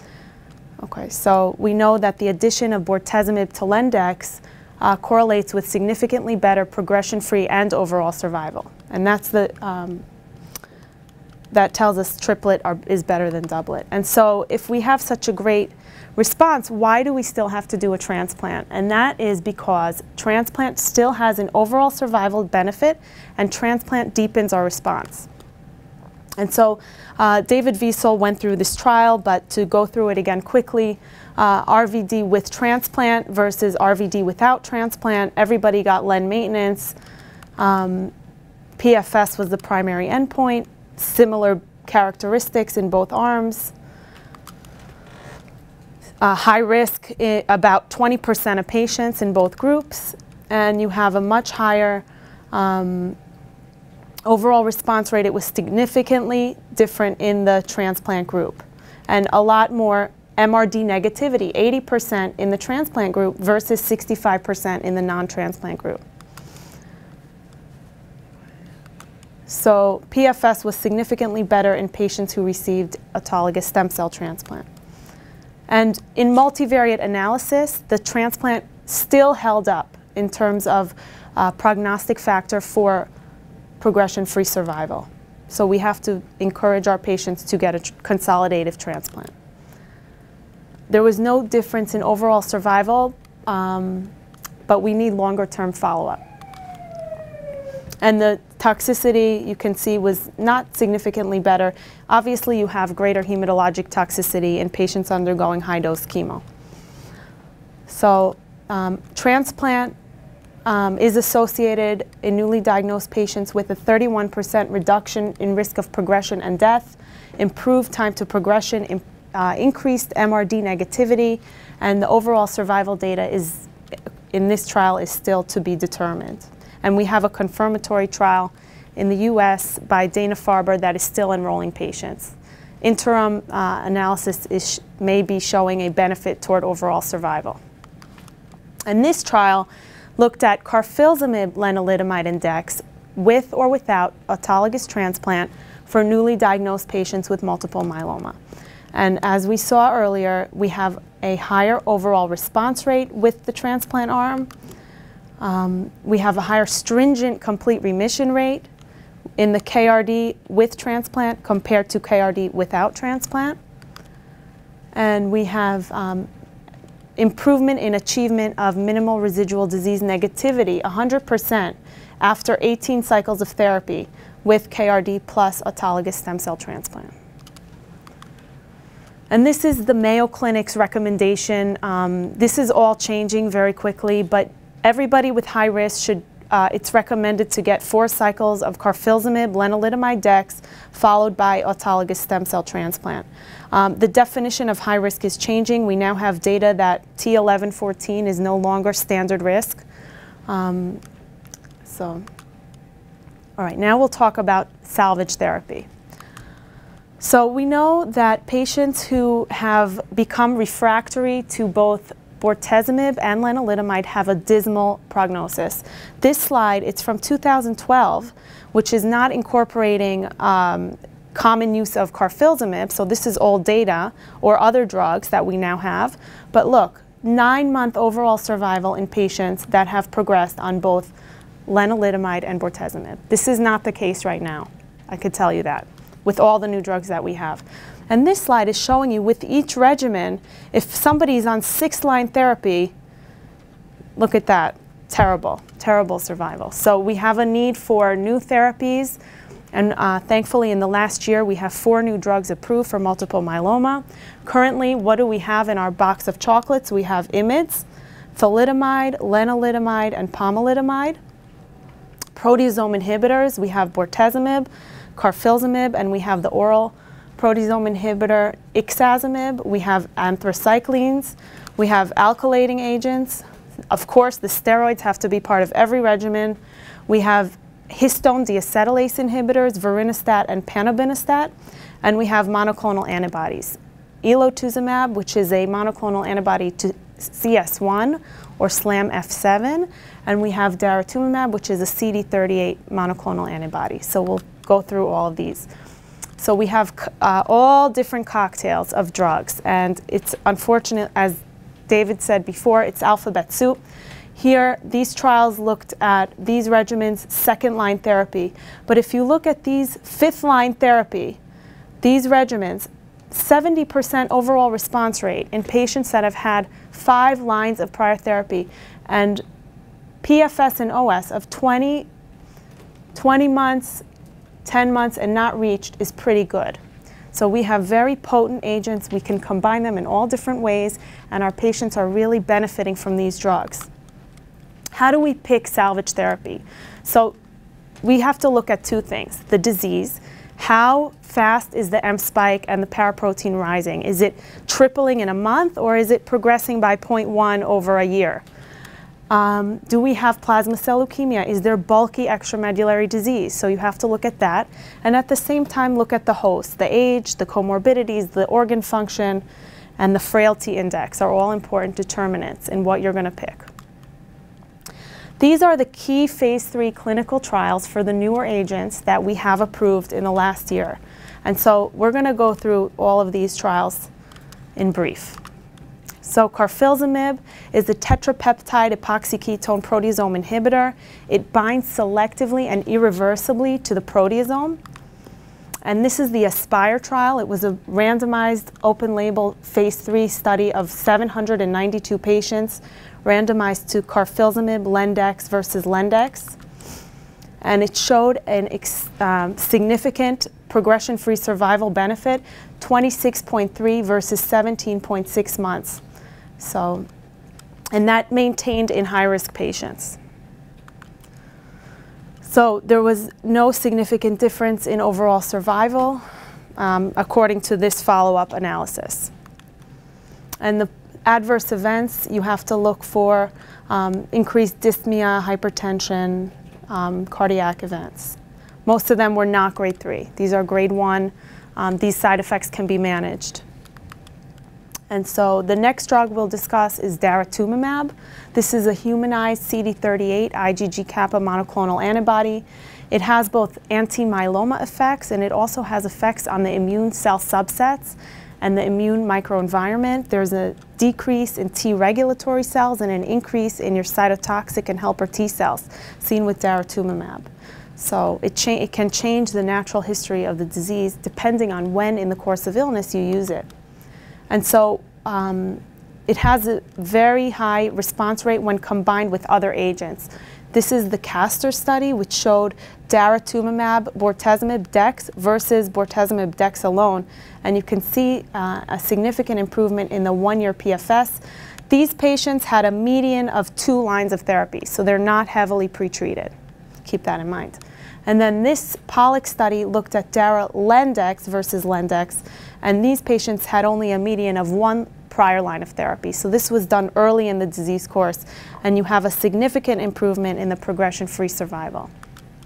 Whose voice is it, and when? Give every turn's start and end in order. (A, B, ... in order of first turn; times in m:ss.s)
0:00.8-0:10.0 A
0:11.5-0:25.3 A
0:26.4-0:36.9 A
0:37.6-0:38.1 A
0:38.8-0:43.7 A
0:46.2-0:53.2 A
0:54.2-1:06.0 A
1:09.5-1:14.7 A
1:15.7-1:23.1 A
1:23.8-1:29.3 A
1:30.9-1:34.1 A
1:34.7-1:36.2 A
1:38.0-1:46.4 A
1:47.9-1:49.9 A
1:50.6-2:03.7 A
2:04.3-2:17.6 A
2:18.9-2:28.4 A
2:28.9-2:34.5 A
2:35.4-2:38.7 A
2:39.4-2:43.6 A
2:44.9-2:46.3 A
2:47.2-2:57.1 A
2:59.3-3:19.8 A
3:20.5-3:21.0 A
3:21.8-3:22.2 A
3:23.6-3:25.9 A
3:27.2-3:51.1 A
3:51.7-4:02.9 A
4:04.2-4:09.2 A
4:09.7-4:17.8 A
4:18.4-4:21.2 A
4:22.3-4:41.5 A
4:42.0-4:55.7 A
4:56.4-5:03.8 A
5:04.3-5:11.4 A
5:12.0-5:19.4 A
5:20.2-5:22.1 A
5:23.1-5:24.0 A
5:24.6-5:26.8 A
5:27.3-5:33.9 A
5:35.0-5:37.3 A
5:38.0-5:48.4 A
5:49.3-5:59.4 A
6:00.0-6:03.7 A
6:05.4-6:14.1 A
6:14.8-6:15.4 A
6:16.2-6:24.8 A
6:25.8-6:36.6 A
6:37.6-6:46.0 A
6:46.6-6:47.0 A
6:47.9-6:50.2 A
6:52.4-6:56.2 A
6:56.8-6:59.3 A
7:00.6-7:13.6 A
7:15.1-7:43.7 A
7:44.5-8:06.5 A
8:07.0-8:22.1 A